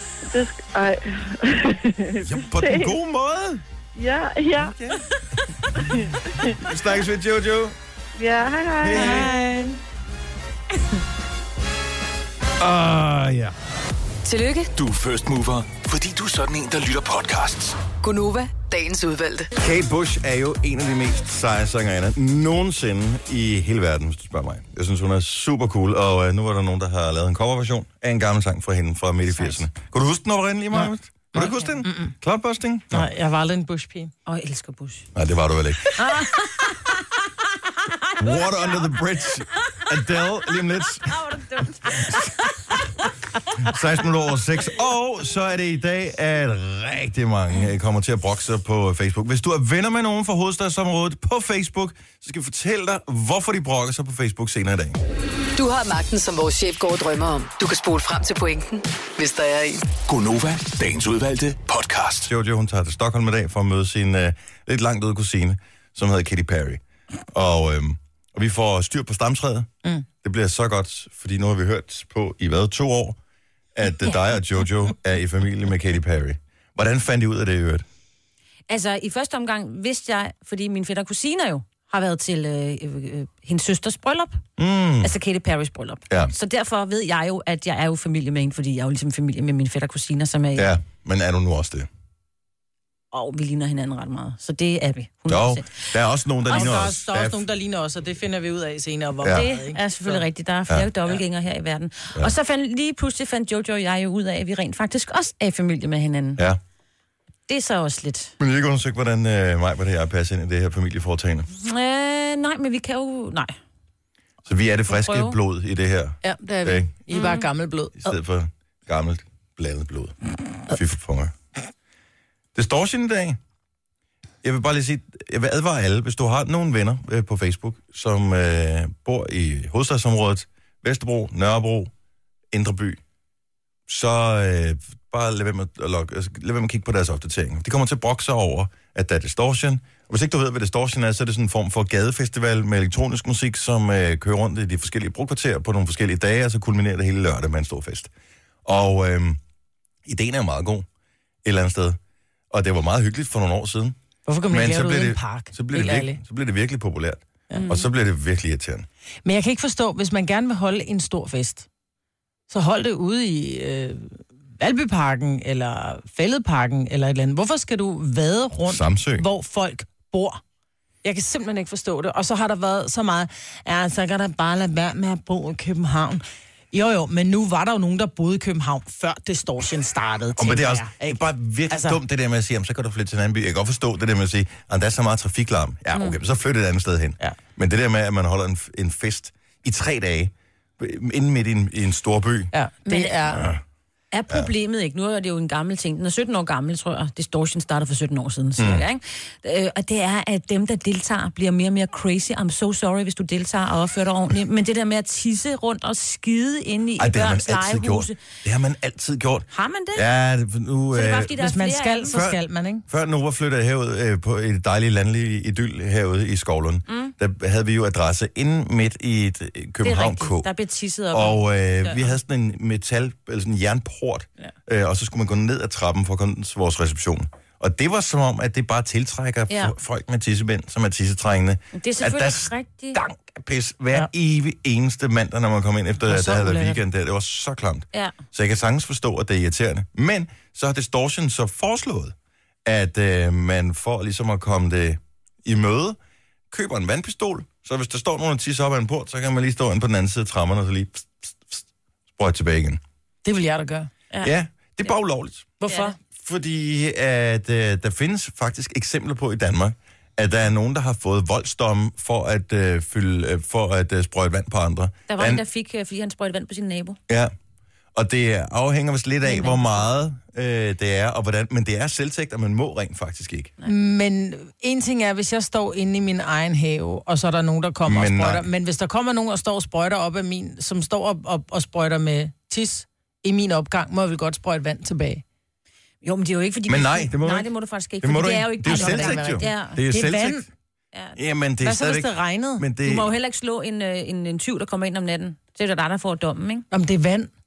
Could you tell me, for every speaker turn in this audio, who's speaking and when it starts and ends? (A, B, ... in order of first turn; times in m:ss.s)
0:00.2-0:02.9 A
0:02.2-0:03.6 B
0:04.0-0:04.7 A
0:04.6-0:05.0 B
0:05.7-0:06.6 A
0:06.5-0:07.8 B
0:08.2-0:09.3 A
0:08.8-0:09.3 B
0:08.9-0:09.8 C
0:12.6-0:13.5 B
0:14.2-0:14.7 D
0:14.7-0:17.8 E
0:18.0-0:19.5 D
0:19.6-0:33.1 B
0:30.7-0:32.1 C
0:31.4-0:31.7 F
0:32.9-0:34.1 C
0:34.3-0:35.1 F
0:35.1-0:36.0 B
0:35.9-0:37.0 F
0:37.9-0:38.9 F
0:38.2-0:41.2 B
0:41.0-0:42.8 F
0:42.0-0:42.3 B
0:43.6-0:55.0 B
0:55.6-0:59.8 D
1:00.0-1:02.3 E
1:02.2-1:09.7 B
1:10.2-1:13.2 B
1:13.7-1:17.8 B
1:18.7-1:24.4 F
1:24.6-1:25.1 B
1:25.0-1:30.7 F
1:30.6-1:31.9 B
1:33.1-1:36.0 F
1:35.3-1:37.4 B
1:36.5-1:40.2 C
1:36.5-1:36.8 F
1:39.3-1:46.4 F
1:47.5-1:48.3 F
1:48.4-1:51.5 B
1:51.5-1:53.5 F
1:54.5-1:56.9 B
1:54.9-1:55.3 F
1:56.2-1:58.2 C
1:57.1-1:57.4 F
1:58.0-2:00.2 B
2:00.7-2:01.3 B
2:02.5-2:03.4 B
2:04.4-2:11.9 B
2:12.5-2:13.0 B
2:13.9-2:28.1 B
2:28.6-2:29.4 B
2:30.0-2:30.8 B
2:31.4-2:32.0 B
2:32.5-2:34.0 B
2:34.3-2:36.2 C
2:34.5-2:38.9 B
2:37.5-2:37.8 F
2:39.2-2:41.7 C
2:42.5-2:50.4 C
2:48.7-2:49.2 B
2:51.0-3:02.0 C
3:00.4-3:12.5 B
3:12.5-3:13.4 C
3:12.9-3:13.5 F
3:13.3-3:13.6 B
3:14.1-3:28.2 F
3:18.6-3:18.8 B
3:27.0-3:31.3 B
3:29.5-3:30.1 F
3:30.9-3:32.2 F
3:31.4-3:32.8 C
3:32.1-3:40.5 B
3:36.9-3:37.1 F
3:39.8-3:42.1 F
3:41.1-4:02.1 B
3:49.5-3:49.7 F
3:51.7-3:53.0 F
3:56.0-3:56.8 C
4:02.6-4:06.0 B
4:06.5-4:11.6 B
4:12.2-4:12.8 B
4:13.2-4:13.9 C
4:14.2-4:15.5 B
4:15.6-4:16.0 C
4:15.7-4:15.9 F
4:16.2-4:25.4 B
4:25.1-4:27.0 F
4:27.1-4:27.3 B
4:27.9-4:33.5 B
4:29.2-4:29.8 F
4:33.6-4:45.2 C
4:37.8-4:38.5 B
4:46.0-4:49.8 F
4:46.7-4:50.4 B
4:48.6-4:50.4 C
4:51.2-4:53.1 B
4:51.6-4:52.6 C
4:52.8-4:56.6 F
4:56.7-4:57.3 C